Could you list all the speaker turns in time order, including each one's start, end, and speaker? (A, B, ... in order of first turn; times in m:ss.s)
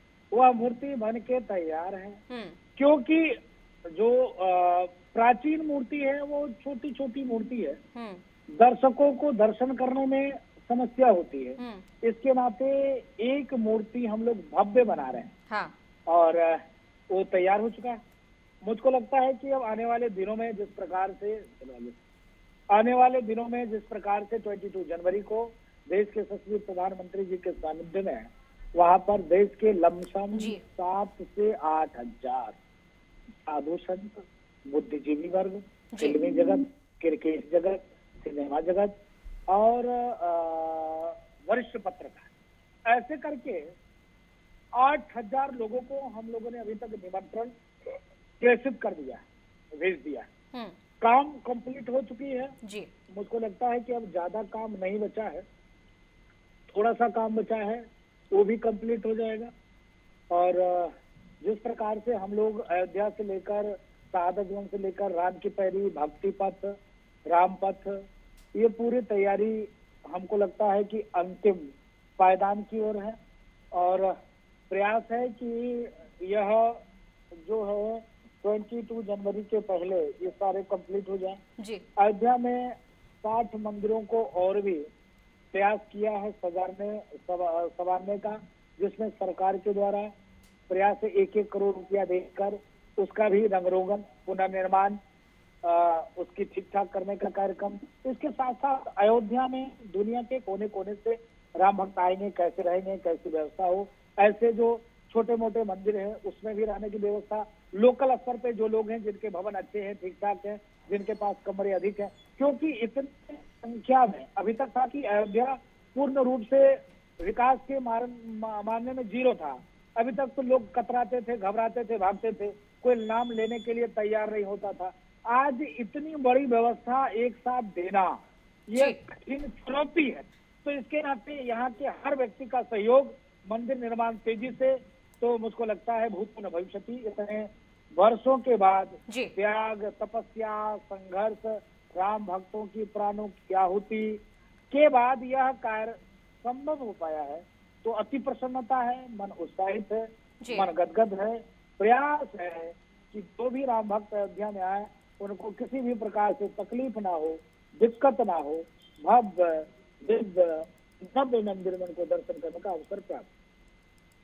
0:00.3-0:02.2 A
0:02.3-0:02.6 B
0:02.8-0:03.4 A
0:03.9-0:07.8 A
0:08.0-0:08.2 B
0:08.6-0:15.3 A
0:11.6-0:11.8 B
0:15.5-0:15.7 B
0:16.1-0:18.0 A
0:18.6-0:22.0 A
0:22.7-0:32.6 A
0:30.3-0:30.6 B
0:33.4-0:39.0 A
0:35.9-0:36.2 B
0:39.5-0:42.3 A
0:42.9-0:43.7 A
0:44.8-0:47.5 A
0:48.4-0:49.2 A
0:49.8-0:50.3 A
0:51.0-0:52.5 A
0:52.6-0:52.9 B
0:53.1-0:55.4 A
0:56.7-0:59.5 A
1:00.3-1:08.0 A
1:08.5-1:13.2 A
1:13.7-1:14.2 A
1:14.7-1:16.8 A
1:17.4-1:21.4 A
1:21.6-1:21.8 B
1:22.0-1:24.9 A
1:25.5-1:30.1 A
1:30.7-1:35.0 A
1:35.6-2:43.3 A
2:08.8-2:09.0 B
2:30.4-2:30.7 B